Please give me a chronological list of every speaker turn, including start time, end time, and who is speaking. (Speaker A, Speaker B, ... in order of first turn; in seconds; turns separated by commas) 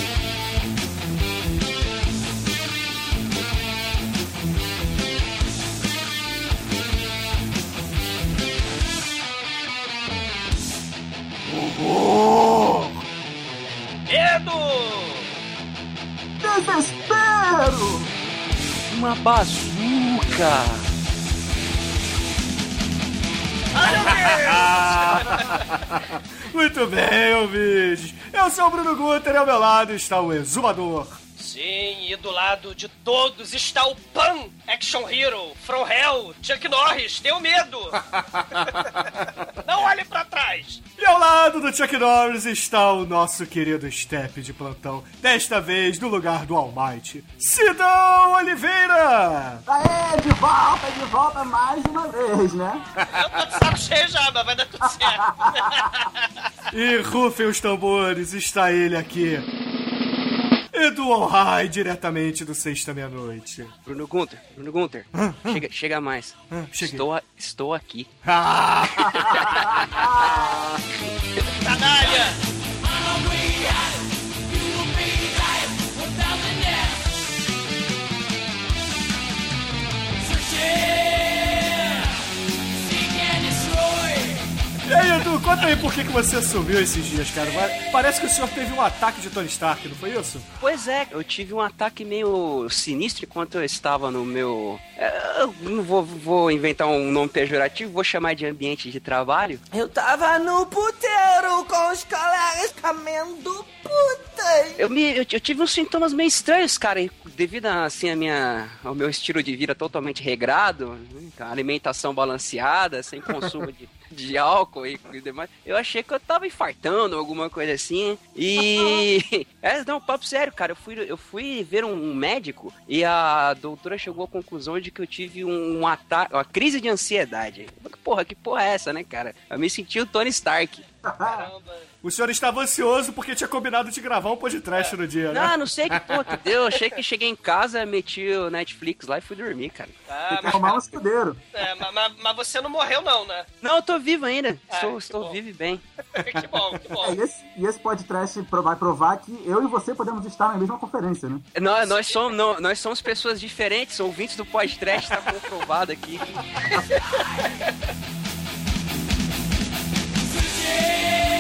Speaker A: 11.5-12.9, Speaker B: 14.1-15.3, Speaker C: 16.4-18.1, Speaker D: 18.9-20.8, Speaker B: 23.7-25.7, Speaker A: 23.8-31.2, Speaker B: 31.4-38.0, Speaker A: 38.1-39.0, Speaker B: 38.6-40.8, Speaker A: 41.0-49.6, Speaker C: 49.7-52.9, Speaker B: 53.1-56.3, Speaker C: 55.0-55.7, Speaker A: 56.7-59.5, Speaker A: 60.7-63.7, Speaker D: 63.9-68.1, Speaker A: 65.1-65.6, Speaker A: 66.5-67.1, Speaker A: 68.2-69.4, Speaker D: 69.1-70.3, Speaker B: 71.6-72.4, Speaker A: 84.8-90.5, Speaker D: 90.6-99.6, Speaker E: 99.7-104.8, Speaker D: 104.8-130.8, Speaker C: 131.1-131.5, Speaker B: 131.2-131.9, Speaker A: 132.0-136.3, Speaker D: 135.3-139.9, Speaker B: 140.1-140.8, Speaker C: 140.3-141.4, Speaker B: 141.5-143.5, Speaker D: 143.6-145.8, Speaker B: 144.7-145.4, Speaker B: 146.2-147.2, Speaker A: 146.2-146.6, Speaker C: 147.0-151.5, Speaker D: 151.6-157.0, Speaker B: 151.8-152.2